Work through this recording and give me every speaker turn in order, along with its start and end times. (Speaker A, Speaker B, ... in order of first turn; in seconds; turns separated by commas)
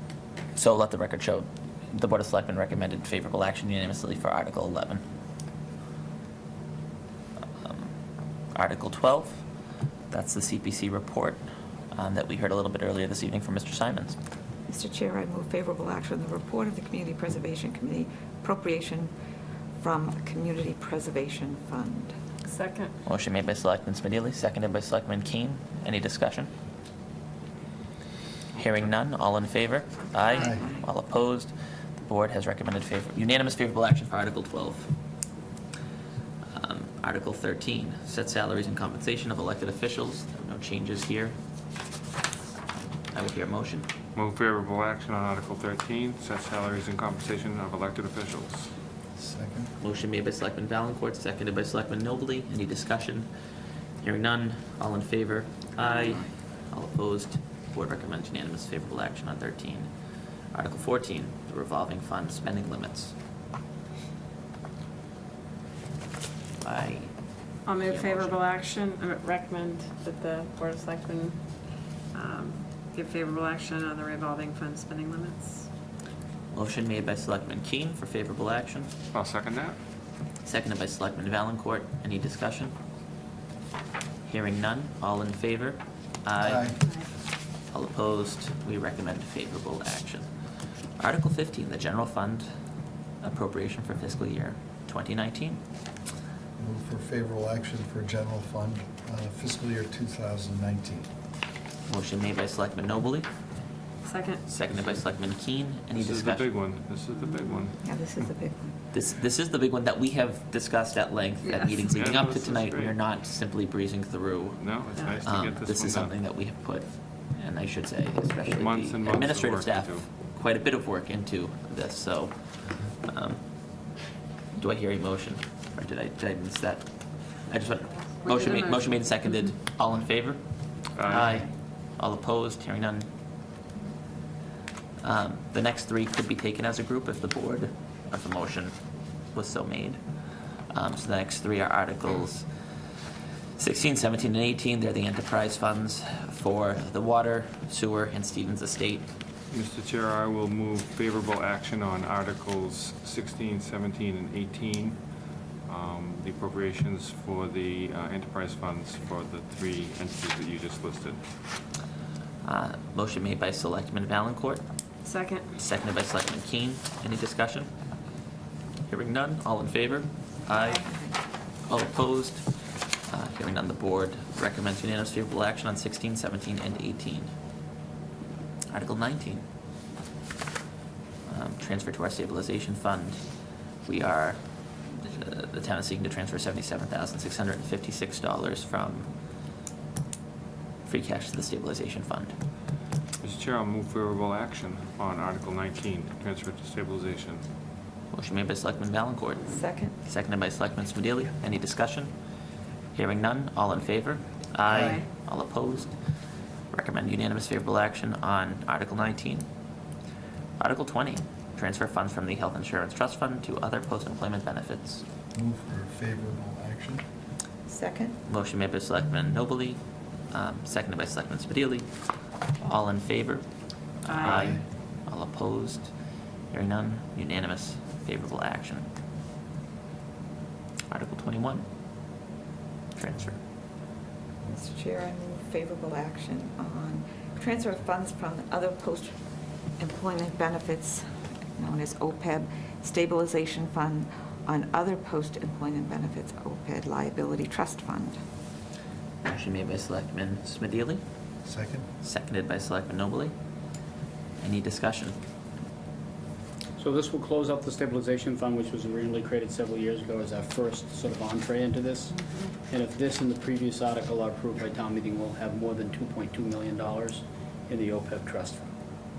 Speaker A: 0.6-5.0, Speaker A: 7.6-7.9, Speaker A: 8.6-9.4, Speaker A: 10.1-11.4, Speaker A: 11.9-14.2, Speaker B: 14.7-19.1, Speaker B: 19.8-22.1, Speaker C: 22.5-22.9, Speaker A: 23.1-26.5, Speaker A: 28.6-31.5, Speaker D: 30.4-30.6, Speaker A: 32.0-34.9, Speaker A: 36.5-41.4, Speaker A: 43.1-43.9, Speaker E: 44.1-48.7, Speaker D: 49.2-49.7, Speaker A: 49.8-53.3, Speaker A: 54.0-59.9, Speaker A: 60.5-63.1, Speaker A: 66.6-68.4, Speaker C: 67.7-71.6, Speaker C: 72.1-75.7, Speaker A: 76.5-78.9, Speaker E: 79.1-79.8, Speaker A: 80.5-82.7, Speaker A: 84.3-86.8, Speaker D: 86.4-86.8, Speaker A: 87.7-90.3, Speaker A: 91.0-92.4, Speaker A: 93.2-95.6, Speaker D: 96.6-101.1, Speaker A: 101.9-103.3, Speaker C: 104.0-104.5, Speaker A: 104.5-106.5, Speaker E: 105.9-107.8, Speaker B: 107.8-108.8, Speaker A: 108.9-114.6, Speaker C: 111.4-112.0, Speaker E: 111.9-113.0, Speaker E: 114.6-116.2, Speaker C: 115.0-115.2, Speaker A: 115.2-123.4, Speaker E: 118.5-120.1, Speaker A: 124.6-126.9, Speaker A: 127.5-130.4, Speaker C: 128.2-129.1, Speaker E: 131.0-131.3, Speaker A: 131.0-133.1, Speaker A: 135.0-138.7, Speaker A: 139.3-140.0, Speaker A: 140.7-142.5, Speaker A: 143.6-149.1, Speaker E: 149.5-155.0, Speaker E: 155.7-161.2, Speaker A: 162.4-164.6, Speaker C: 165.1-165.6, Speaker A: 165.6-167.7, Speaker A: 168.9-170.9, Speaker B: 170.5-171.2, Speaker A: 171.7-172.4, Speaker A: 173.1-177.3, Speaker A: 178.7-179.4, Speaker A: 181.3-183.2, Speaker A: 183.9-189.1, Speaker A: 190.9-192.3, Speaker E: 193.2-197.4, Speaker A: 198.1-202.1, Speaker B: 199.5-200.0, Speaker A: 202.9-205.9, Speaker D: 204.7-205.0, Speaker C: 204.8-205.0, Speaker A: 206.7-209.5, Speaker A: 210.6-215.0, Speaker D: 215.3-217.0, Speaker B: 217.7-218.2, Speaker A: 218.3-219.8, Speaker A: 220.3-221.9, Speaker A: 222.6-223.4, Speaker A: 224.0-225.9, Speaker C: 224.1-224.6, Speaker D: 224.3-224.6, Speaker A: 226.5-228.9, Speaker A: 230.9-231.7, Speaker A: 232.9-233.4, Speaker B: 234.5-239.1, Speaker B: 239.8-241.0, Speaker B: 241.6-248.2, Speaker A: 249.2-251.0, Speaker D: 251.4-251.9, Speaker A: 252.0-253.3, Speaker A: 254.4-255.2, Speaker F: 256.8-262.1, Speaker F: 262.7-268.7